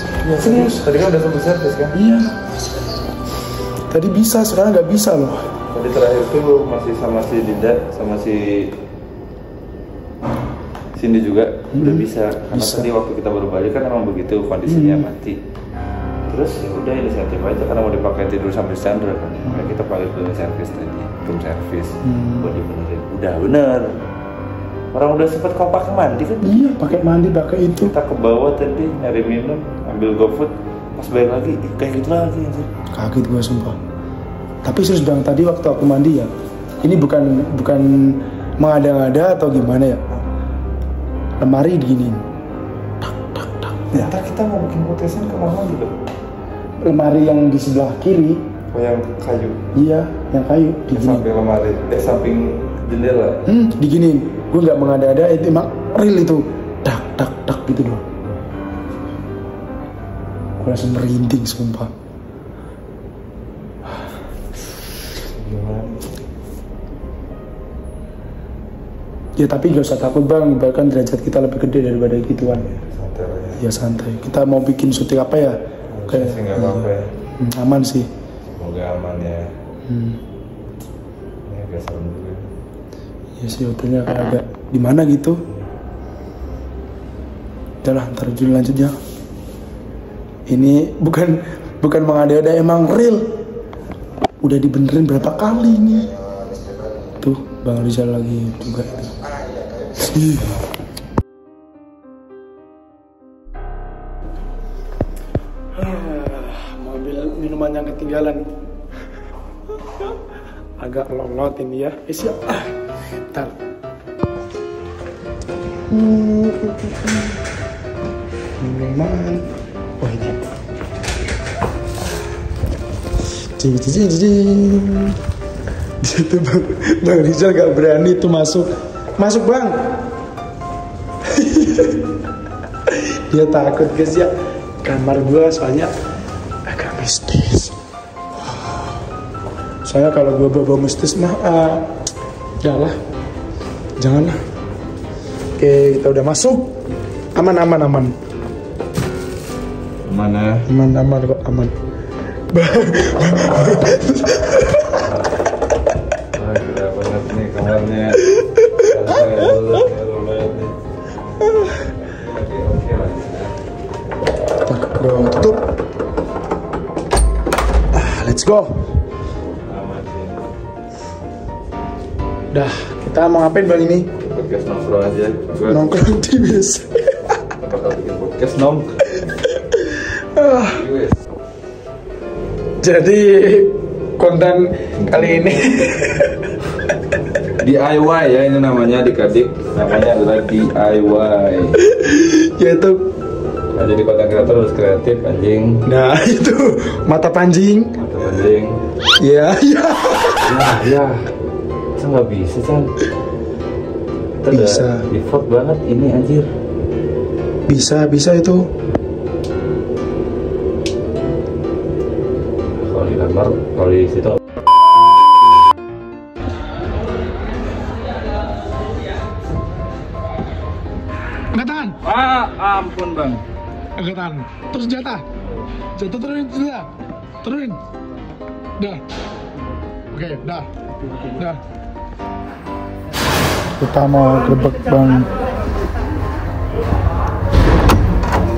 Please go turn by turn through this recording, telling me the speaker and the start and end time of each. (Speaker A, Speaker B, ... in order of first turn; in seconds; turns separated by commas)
Speaker A: 0.2-2.0, Speaker B: 0.4-0.8, Speaker B: 1.9-2.5, Speaker B: 3.9-5.5, Speaker A: 5.7-8.7, Speaker A: 10.9-15.4, Speaker B: 11.7-12.9, Speaker B: 14.7-15.1, Speaker A: 16.3-23.9, Speaker B: 22.0-22.5, Speaker A: 24.9-26.5, Speaker B: 26.4-27.9, Speaker A: 27.8-32.7, Speaker B: 32.9-33.8, Speaker B: 34.6-36.3, Speaker B: 36.8-40.0, Speaker B: 41.4-42.2, Speaker B: 43.0-44.1, Speaker A: 43.9-46.0, Speaker B: 46.8-48.4, Speaker A: 48.7-49.6, Speaker B: 49.7-51.3, Speaker A: 50.9-53.4, Speaker B: 53.5-58.0, Speaker B: 60.6-61.9, Speaker A: 65.3-66.1, Speaker B: 69.4-72.7, Speaker A: 72.5-73.6, Speaker B: 73.6-75.6, Speaker A: 75.9-77.1, Speaker B: 76.1-78.1, Speaker A: 78.6-79.5, Speaker B: 79.9-80.2, Speaker A: 81.5-82.5, Speaker B: 83.4-85.4, Speaker B: 87.8-89.0, Speaker B: 90.5-93.3, Speaker B: 94.4-96.1, Speaker B: 97.2-99.2, Speaker B: 100.0-100.6, Speaker B: 105.8-108.4, Speaker B: 110.8-112.7, Speaker B: 115.9-117.2, Speaker B: 118.6-119.5, Speaker B: 120.0-120.4, Speaker B: 123.6-125.2, Speaker B: 126.0-129.8, Speaker B: 131.3-132.0, Speaker B: 132.9-134.3, Speaker B: 134.8-135.9, Speaker B: 136.7-137.8, Speaker B: 138.5-138.8, Speaker B: 139.8-141.9, Speaker B: 142.6-143.0, Speaker B: 144.0-144.4, Speaker B: 145.6-146.7, Speaker B: 147.3-148.2, Speaker A: 150.1-150.7, Speaker B: 150.7-151.7, Speaker B: 152.5-155.1, Speaker A: 156.3-160.8, Speaker A: 162.1-163.5, Speaker B: 164.7-165.7, Speaker B: 167.9-168.8, Speaker A: 169.7-170.5, Speaker B: 172.5-174.1, Speaker A: 174.2-175.9, Speaker B: 175.7-177.1, Speaker A: 177.6-179.3, Speaker B: 179.7-180.8, Speaker A: 180.6-181.2, Speaker B: 182.8-186.4, Speaker A: 187.6-191.8, Speaker B: 191.8-193.0, Speaker A: 193.8-195.9, Speaker B: 195.8-197.9, Speaker A: 198.0-198.8, Speaker B: 199.2-200.5, Speaker A: 200.4-201.2, Speaker A: 202.0-202.9, Speaker A: 204.4-206.5, Speaker B: 204.5-205.1, Speaker B: 207.7-208.7, Speaker A: 212.8-214.4, Speaker B: 221.5-222.0, Speaker A: 222.0-223.4, Speaker B: 224.0-225.2, Speaker B: 226.0-226.9, Speaker B: 227.4-227.8, Speaker B: 228.8-229.0, Speaker B: 230.1-230.7, Speaker B: 231.2-231.6, Speaker B: 233.8-235.3